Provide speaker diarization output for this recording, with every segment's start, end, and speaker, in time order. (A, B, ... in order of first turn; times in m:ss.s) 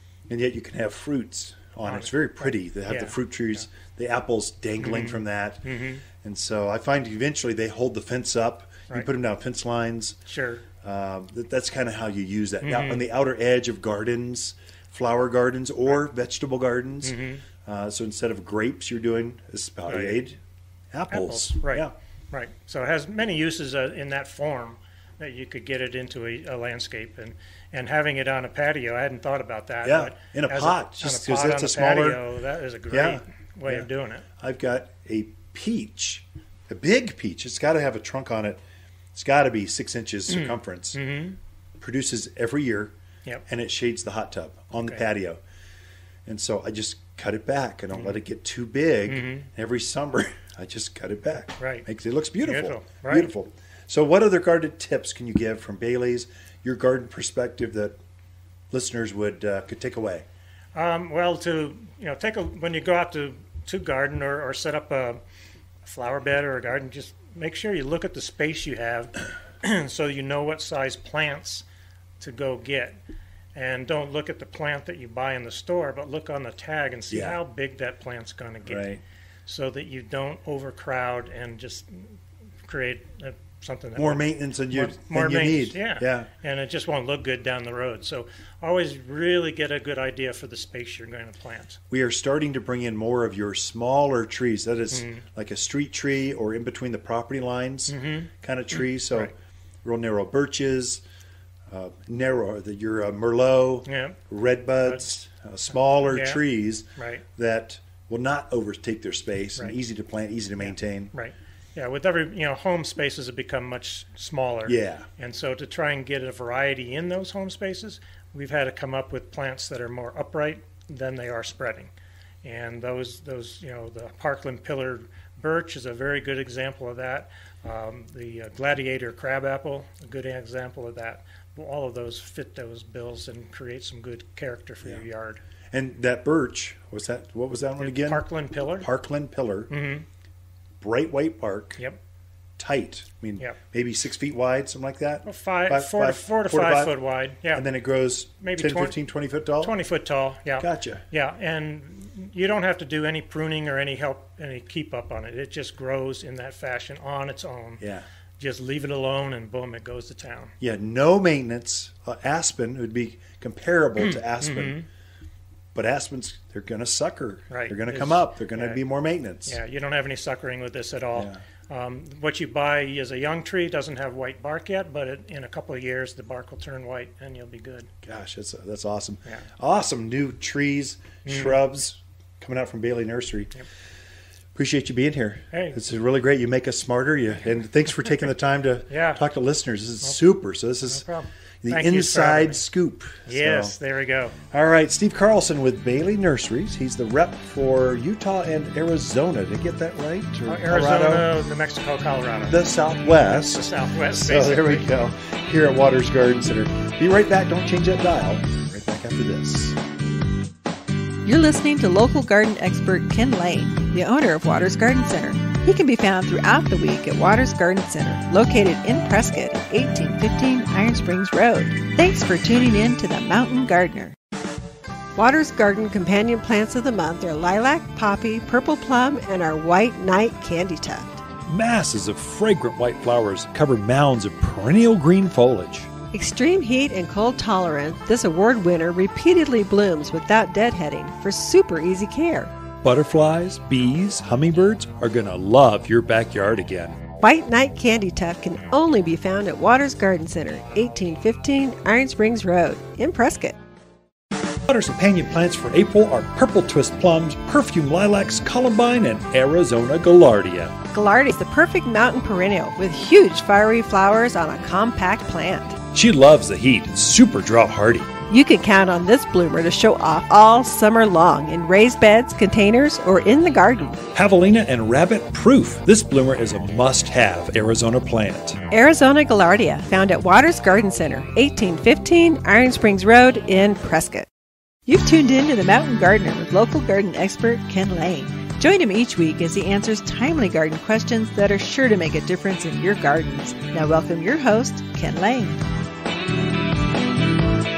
0:00.3-0:05.6 A
0:01.8-0:03.1 B
0:04.8-0:06.0 B
0:06.2-0:10.2 A
0:10.2-0:10.6 B
0:10.8-0:20.4 A
0:12.6-0:13.0 B
0:17.0-0:17.4 B
0:19.9-0:20.2 B
0:20.9-0:21.9 A
0:21.1-0:34.2 B
0:29.8-0:32.2 A
0:32.9-0:33.9 A
0:34.4-0:38.6 A
0:39.1-0:41.0 A
0:40.3-0:41.4 B
0:41.8-0:42.9 A
0:43.5-0:45.4 A
0:46.2-0:58.0 A
0:49.1-0:49.4 B
0:51.6-0:51.8 B
0:52.4-0:53.3 B
0:58.7-1:00.2 A
1:00.7-1:05.2 B
1:05.8-1:11.6 B
1:12.2-1:13.0 B
1:13.5-1:18.9 B
1:17.1-1:17.4 A
1:18.6-1:19.0 A
1:19.4-1:31.8 B
1:24.0-1:26.3 A
1:31.9-1:39.3 A
1:34.9-1:35.2 B
1:37.9-1:39.3 B
1:39.8-1:41.0 A
1:41.7-1:51.1 A
1:43.8-1:44.2 B
1:46.1-1:46.4 B
1:47.0-1:47.2 B
1:50.6-2:01.9 B
1:54.6-1:55.0 A
2:02.4-2:15.4 B
2:15.7-2:18.2 A
2:17.8-2:18.9 B
2:18.8-2:19.7 A
2:19.7-2:20.0 B
2:20.8-2:21.8 A
2:22.6-2:26.9 A
2:25.2-2:27.6 B
2:27.5-2:29.7 A
2:28.4-2:28.9 B
2:29.6-2:37.8 B
2:30.6-2:31.0 A
2:37.8-2:38.0 A
2:38.4-2:40.5 B
2:40.6-2:44.8 A
2:44.0-2:44.9 B
2:45.7-2:49.6 A
2:47.5-2:48.8 B
2:49.4-2:57.9 B
2:51.1-2:51.4 A
2:58.0-3:03.5 A
3:01.2-3:01.6 B
3:04.5-3:11.0 A
3:05.5-3:05.8 B
3:08.9-3:09.2 B
3:10.9-3:12.6 B
3:11.6-3:13.8 A
3:13.3-3:14.4 B
3:14.5-3:21.3 A
3:20.5-3:24.9 B
3:22.4-3:29.8 A
3:31.2-3:44.1 C
3:45.1-3:51.2 D
3:51.4-3:55.9 A
3:56.1-4:02.5 D
4:02.8-4:07.0 A
4:07.2-4:13.6 D
4:14.6-4:20.8 A
4:20.9-4:25.8 D
4:25.9-4:28.1 A
4:28.3-4:34.0 D
4:34.1-4:38.6 A
4:38.7-4:44.3 D
4:44.9-4:55.6 C